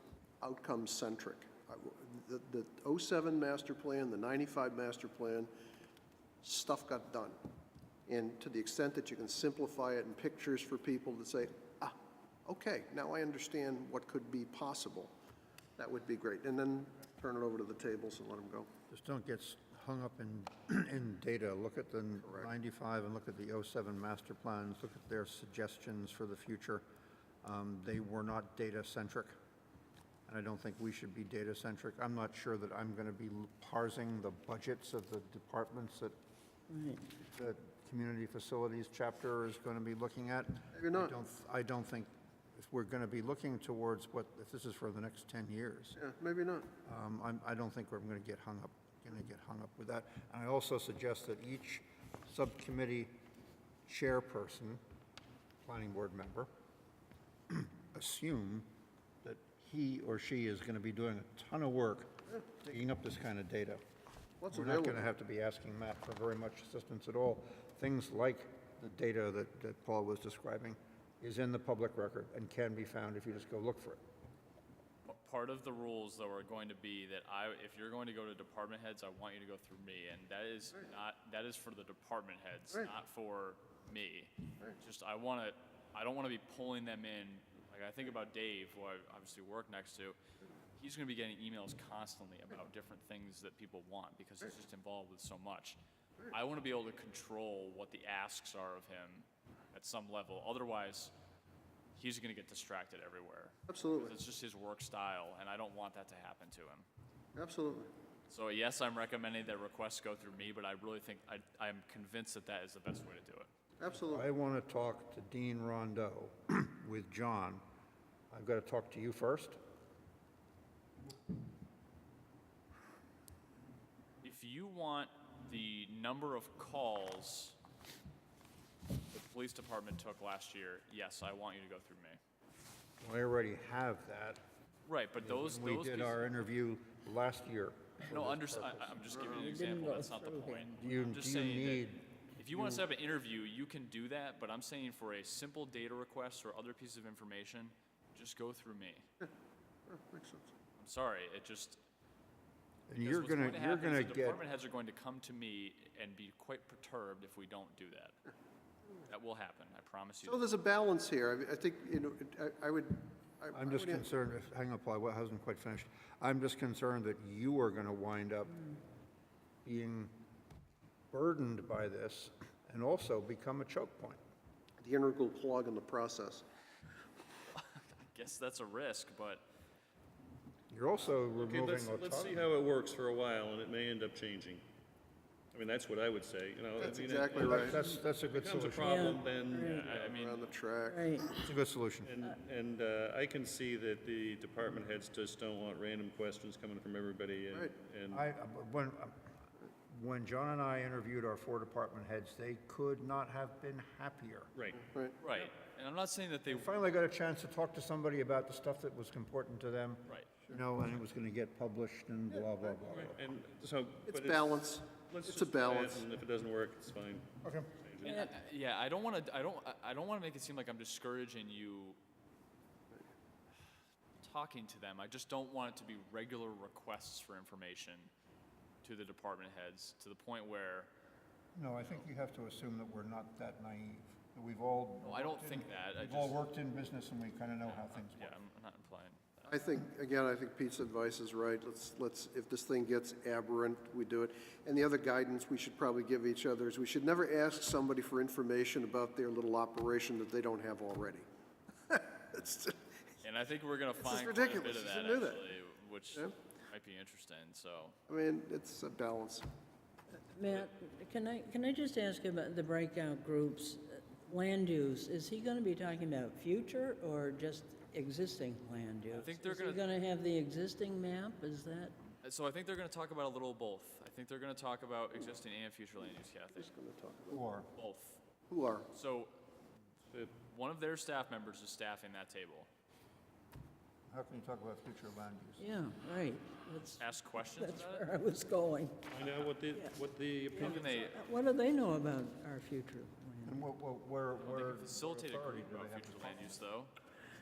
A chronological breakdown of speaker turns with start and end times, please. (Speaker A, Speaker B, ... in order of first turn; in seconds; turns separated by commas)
Speaker A: 0.4-5.5, Speaker A: 6.4-7.4, Speaker A: 8.1-15.1, Speaker A: 15.8-18.7, Speaker B: 18.9-26.8, Speaker A: 22.2-22.5, Speaker B: 27.4-29.4, Speaker B: 30.3-36.1, Speaker C: 36.7-37.0, Speaker B: 37.3-46.0, Speaker A: 40.7-41.1, Speaker A: 46.0-46.7, Speaker B: 46.8-53.1, Speaker B: 53.9-54.8, Speaker B: 55.6-56.5, Speaker B: 57.5-58.7, Speaker B: 59.2-63.8, Speaker A: 64.4-65.0, Speaker B: 64.5-74.0, Speaker D: 75.0-90.2, Speaker D: 90.8-95.8, Speaker D: 96.3-101.1, Speaker D: 102.0-106.8, Speaker A: 103.7-104.1, Speaker A: 107.3-107.9, Speaker D: 108.3-113.5, Speaker A: 113.8-114.3, Speaker B: 114.0-117.6, Speaker B: 118.3-119.6, Speaker D: 124.2-127.6, Speaker D: 129.1-132.2, Speaker B: 133.0-134.4, Speaker D: 134.8-136.3, Speaker B: 135.2-139.1, Speaker D: 138.1-149.0, Speaker C: 139.4-140.7, Speaker B: 140.8-142.8, Speaker A: 149.9-150.5, Speaker D: 150.8-151.8, Speaker B: 152.9-154.4, Speaker D: 152.9-158.2, Speaker D: 159.1-160.5, Speaker A: 160.2-164.1, Speaker B: 163.5-168.7, Speaker B: 169.6-170.1, Speaker B: 171.1-174.2, Speaker A: 174.8-176.4, Speaker D: 177.6-179.4, Speaker B: 180.7-182.5, Speaker E: 181.3-184.6, Speaker E: 185.5-190.3, Speaker A: 186.8-187.8, Speaker B: 187.4-189.2, Speaker C: 188.8-189.9, Speaker D: 189.6-190.5, Speaker A: 190.0-191.3, Speaker C: 190.9-191.3, Speaker B: 191.3-192.1, Speaker E: 192.0-198.2, Speaker B: 198.1-199.2, Speaker B: 199.9-204.5, Speaker E: 204.5-204.9, Speaker A: 204.8-205.2, Speaker D: 205.2-206.7, Speaker B: 206.5-213.3, Speaker E: 213.0-218.3, Speaker A: 214.1-216.1, Speaker B: 217.4-217.7, Speaker D: 218.0-222.0, Speaker D: 224.2-228.1, Speaker D: 228.8-230.9, Speaker B: 231.5-238.3, Speaker D: 235.0-236.4, Speaker D: 237.6-239.6, Speaker A: 239.5-251.2, Speaker A: 251.9-252.8, Speaker D: 253.2-258.0, Speaker A: 254.0-255.5, Speaker A: 258.1-259.4, Speaker C: 260.2-271.9, Speaker D: 269.1-269.9, Speaker D: 272.2-276.7, Speaker A: 276.5-277.4, Speaker B: 277.3-277.7, Speaker D: 277.7-278.2, Speaker A: 278.5-278.9, Speaker D: 278.9-279.3, Speaker E: 280.1-280.4, Speaker D: 280.4-282.7, Speaker B: 284.1-285.7, Speaker C: 285.6-289.0, Speaker D: 287.0-288.1, Speaker E: 289.1-291.1, Speaker C: 290.5-293.6, Speaker D: 290.6-291.2, Speaker B: 293.4-296.6, Speaker D: 294.4-296.9